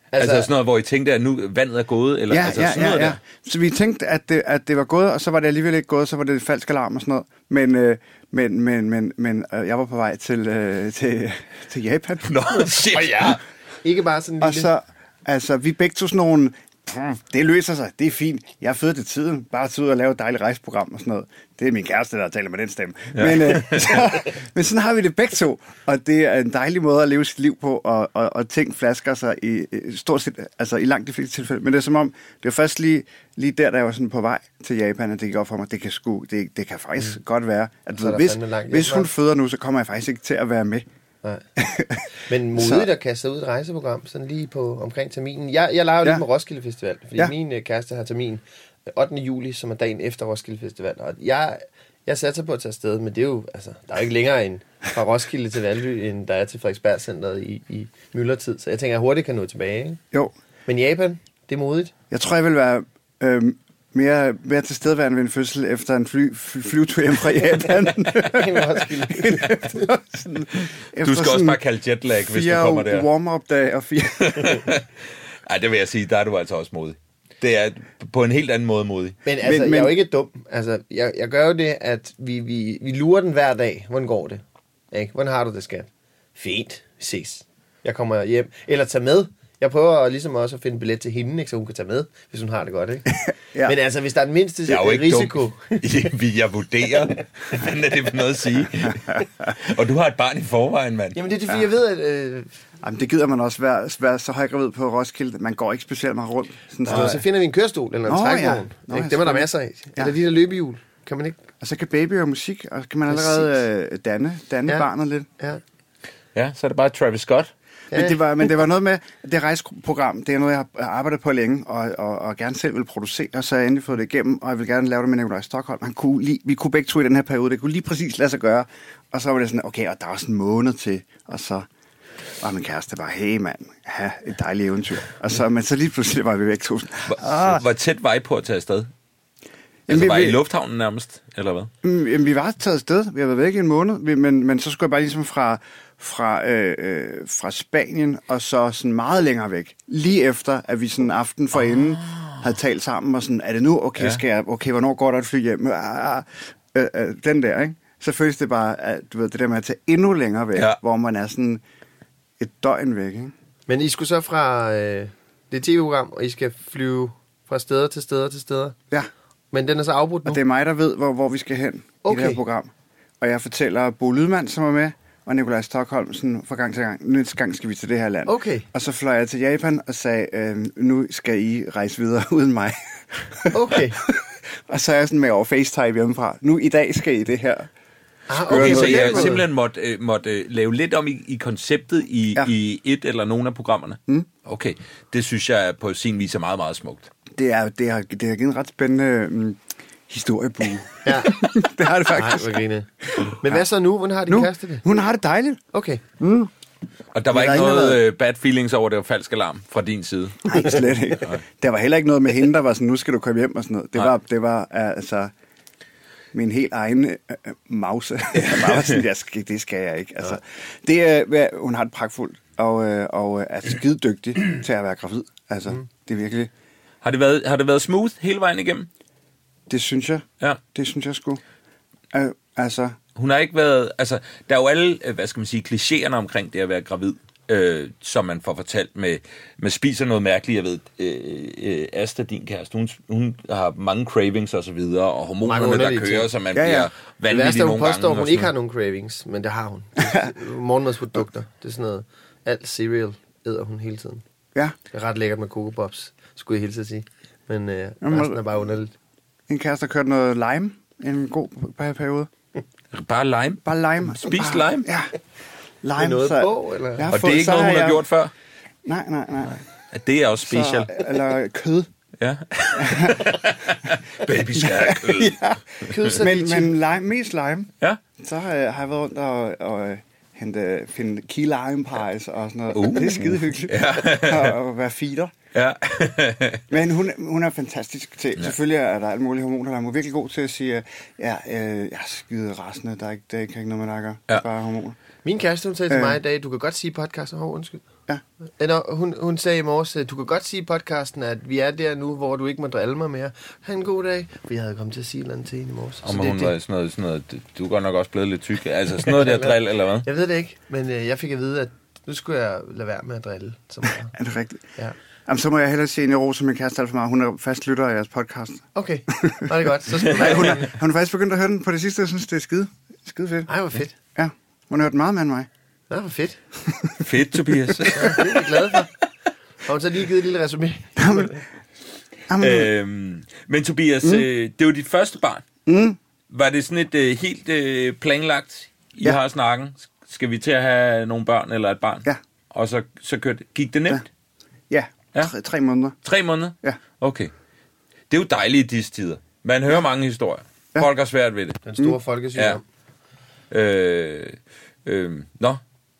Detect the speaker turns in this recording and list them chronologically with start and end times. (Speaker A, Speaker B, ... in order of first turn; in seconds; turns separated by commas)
Speaker A: 0.1-0.5, Speaker B: 0.2-3.2, Speaker C: 2.3-12.3, Speaker B: 12.2-13.4, Speaker A: 12.6-14.7, Speaker C: 14.4-40.9, Speaker B: 23.2-24.0, Speaker A: 38.0-39.1, Speaker C: 41.6-42.0, Speaker A: 42.3-60.0, Speaker C: 42.5-42.9, Speaker A: 60.6-61.9, Speaker C: 62.1-71.6, Speaker A: 68.1-69.9, Speaker B: 71.0-73.1, Speaker C: 72.2-74.7, Speaker B: 74.2-74.8, Speaker B: 75.5-79.2, Speaker A: 79.2-93.1, Speaker C: 79.4-80.0, Speaker A: 93.7-95.8, Speaker B: 94.7-101.2, Speaker C: 98.8-99.2, Speaker A: 101.1-102.5, Speaker C: 102.8-107.2, Speaker A: 106.8-111.4, Speaker C: 108.0-110.1, Speaker C: 111.6-115.3, Speaker A: 113.1-113.5, Speaker B: 116.3-117.5, Speaker C: 117.9-131.7, Speaker A: 117.9-118.2, Speaker C: 132.4-137.6, Speaker B: 137.1-138.9, Speaker C: 139.9-140.4, Speaker B: 139.9-141.7, Speaker C: 141.8-161.6, Speaker B: 154.0-154.2, Speaker C: 162.4-163.3, Speaker A: 163.7-168.8, Speaker A: 169.5-170.4, Speaker C: 170.2-187.7, Speaker A: 172.0-172.4, Speaker A: 178.2-178.7, Speaker A: 183.5-184.0, Speaker A: 188.3-189.4, Speaker C: 188.4-189.4, Speaker B: 188.5-197.1, Speaker C: 197.3-202.6, Speaker A: 201.0-201.5, Speaker A: 202.0-204.8, Speaker C: 203.2-203.6, Speaker C: 204.3-205.6, Speaker A: 205.7-206.0, Speaker C: 206.2-206.5, Speaker B: 207.1-210.7, Speaker C: 207.3-208.0, Speaker C: 210.4-215.3, Speaker C: 216.3-226.5, Speaker B: 218.5-218.8, Speaker B: 227.0-228.9, Speaker C: 229.7-231.4, Speaker C: 232.1-233.0, Speaker B: 233.2-248.5, Speaker A: 245.4-246.3, Speaker C: 246.5-246.9, Speaker A: 247.3-254.2, Speaker A: 254.9-258.9, Speaker C: 258.0-258.4, Speaker C: 259.5-262.3, Speaker B: 262.9-264.9, Speaker C: 263.6-265.1, Speaker C: 265.8-268.1, Speaker A: 265.9-267.1, Speaker B: 267.1-268.3, Speaker C: 268.8-269.6, Speaker B: 269.9-271.0, Speaker C: 270.4-271.9, Speaker B: 272.2-275.4, Speaker C: 272.8-273.4, Speaker C: 274.5-285.3, Speaker A: 275.9-276.8, Speaker B: 282.7-284.6, Speaker B: 285.5-286.6, Speaker C: 286.7-295.0, Speaker A: 295.2-297.8, Speaker C: 295.9-296.2, Speaker A: 298.6-306.5, Speaker B: 306.0-310.1, Speaker A: 309.1-314.1, Speaker C: 314.1-314.7, Speaker C: 315.2-319.5, Speaker A: 318.7-320.7, Speaker B: 320.0-320.5, Speaker C: 320.1-323.5, Speaker A: 323.5-323.9, Speaker C: 324.1-325.5, Speaker A: 325.9-326.4, Speaker C: 326.7-327.1, Speaker B: 327.0-328.5, Speaker C: 327.8-328.1, Speaker A: 327.9-328.9, Speaker A: 329.6-331.4, Speaker C: 331.0-331.4, Speaker C: 332.3-332.7, Speaker B: 332.4-335.4, Speaker C: 335.6-336.0, Speaker B: 336.3-344.1, Speaker C: 344.7-346.0, Speaker B: 346.0-347.3, Speaker B: 348.1-351.6, Speaker A: 351.6-352.6, Speaker B: 353.5-355.6